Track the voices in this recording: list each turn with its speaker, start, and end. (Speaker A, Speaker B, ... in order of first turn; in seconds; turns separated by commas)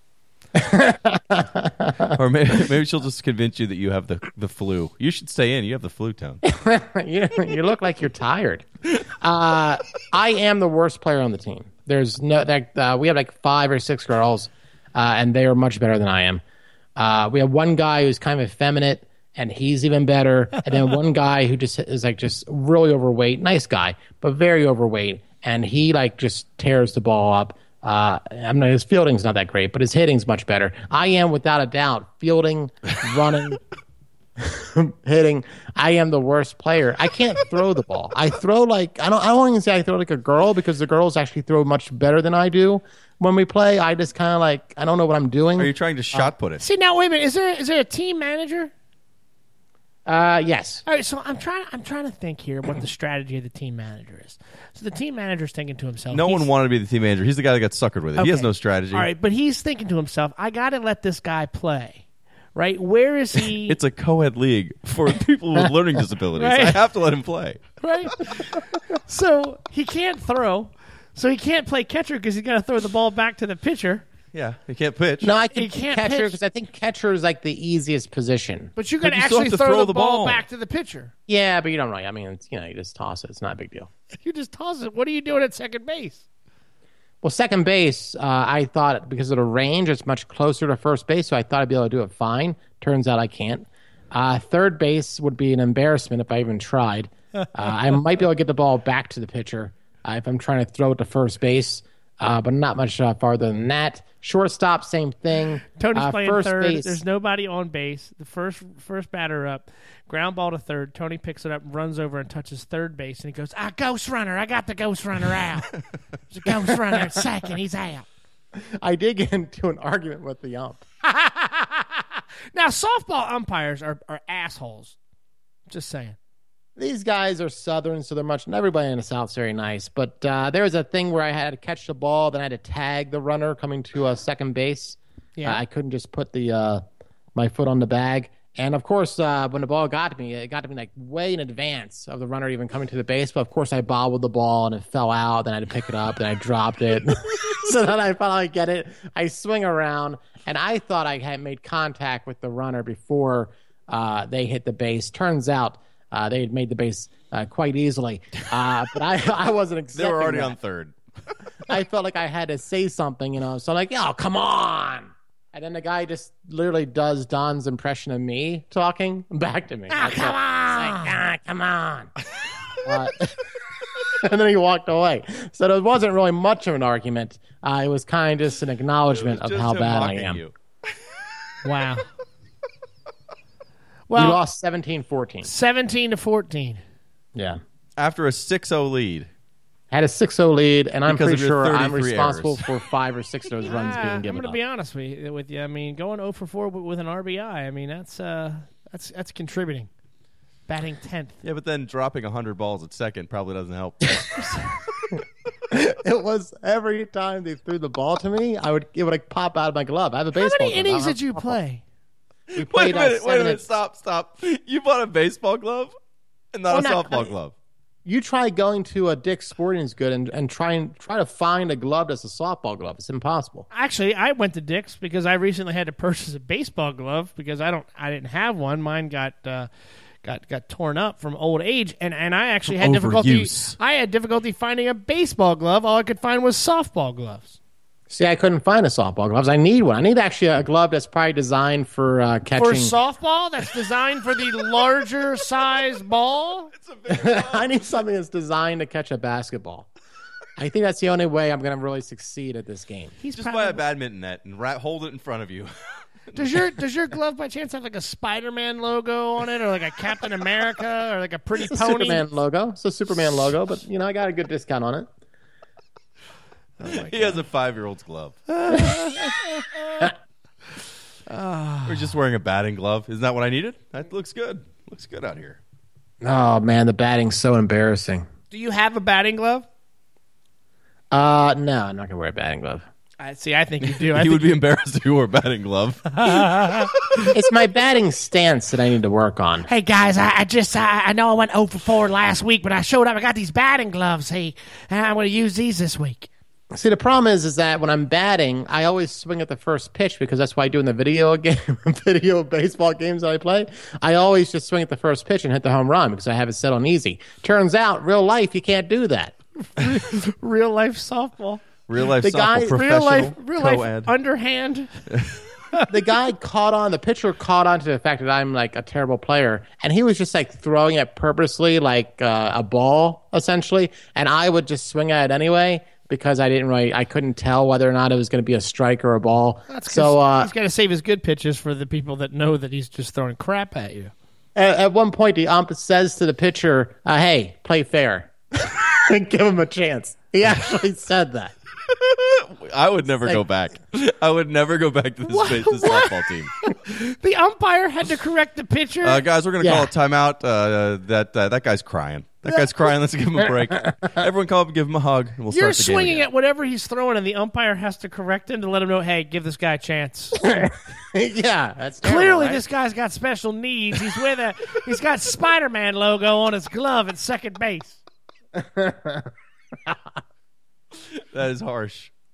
Speaker A: 0.5-2.2, Speaker B: 2.1-6.4, Speaker A: 6.4-16.4, Speaker A: 16.9-33.6, Speaker A: 34.4-46.3, Speaker B: 45.6-46.6, Speaker C: 46.6-48.7, Speaker A: 50.0-50.8, Speaker C: 50.9-56.5, Speaker B: 56.1-59.1, Speaker C: 58.2-62.0, Speaker C: 62.5-63.8, Speaker B: 63.7-68.3, Speaker C: 66.4-66.8, Speaker C: 67.8-68.4, Speaker C: 69.0-74.0, Speaker B: 74.3-75.3, Speaker A: 75.2-78.7, Speaker C: 75.5-76.4, Speaker C: 78.8-81.1, Speaker B: 79.0-80.5, Speaker A: 81.3-83.9, Speaker C: 84.2-86.2, Speaker A: 87.2-107.0, Speaker C: 105.7-115.7, Speaker C: 116.3-118.0, Speaker A: 118.6-120.8, Speaker C: 121.0-125.0, Speaker C: 125.7-126.2, Speaker A: 126.8-136.8, Speaker A: 137.3-160.6, Speaker B: 159.9-160.9, Speaker A: 161.7-172.1, Speaker C: 169.9-171.2, Speaker A: 172.8-173.4, Speaker A: 174.0-180.4, Speaker B: 179.1-180.5, Speaker C: 181.6-182.1, Speaker C: 184.1-184.4, Speaker A: 184.1-185.5, Speaker C: 185.4-186.8, Speaker B: 188.0-189.3, Speaker A: 189.9-194.6, Speaker B: 191.1-192.7, Speaker C: 193.7-199.9, Speaker C: 200.7-201.3, Speaker B: 201.4-204.8, Speaker A: 205.7-211.6, Speaker C: 210.3-211.8, Speaker B: 212.5-215.9, Speaker A: 212.5-213.6, Speaker B: 216.5-217.5, Speaker A: 216.7-217.3, Speaker A: 218.1-223.7, Speaker C: 223.7-229.7, Speaker C: 230.2-237.6, Speaker B: 232.7-233.8, Speaker A: 238.1-242.9, Speaker C: 242.6-246.7, Speaker B: 246.7-247.7, Speaker A: 247.1-249.9, Speaker A: 250.6-253.1, Speaker C: 253.2-253.8, Speaker B: 253.3-255.7, Speaker B: 256.3-256.7, Speaker C: 256.3-262.3, Speaker A: 261.6-265.1, Speaker B: 266.8-268.4, Speaker C: 266.8-267.3, Speaker C: 268.5-270.1, Speaker C: 271.3-272.1, Speaker B: 271.9-275.6, Speaker A: 276.2-278.3, Speaker C: 278.5-279.6, Speaker A: 281.1-282.9, Speaker C: 283.2-284.6, Speaker B: 283.8-286.4, Speaker C: 286.2-286.9, Speaker A: 287.2-289.7, Speaker C: 289.7-296.3, Speaker A: 296.7-309.4, Speaker C: 309.8-311.6, Speaker B: 311.9-314.1, Speaker A: 312.2-313.3, Speaker C: 312.7-314.9, Speaker B: 315.1-315.4, Speaker A: 315.9-330.5, Speaker C: 329.7-334.1, Speaker A: 334.6-341.5, Speaker B: 341.9-346.5, Speaker C: 345.3-349.2, Speaker B: 349.0-356.3, Speaker A: 349.6-349.9, Speaker C: 355.5-360.6, Speaker A: 360.4-362.6, Speaker C: 362.0-368.0, Speaker A: 368.5-369.3, Speaker B: 370.9-372.1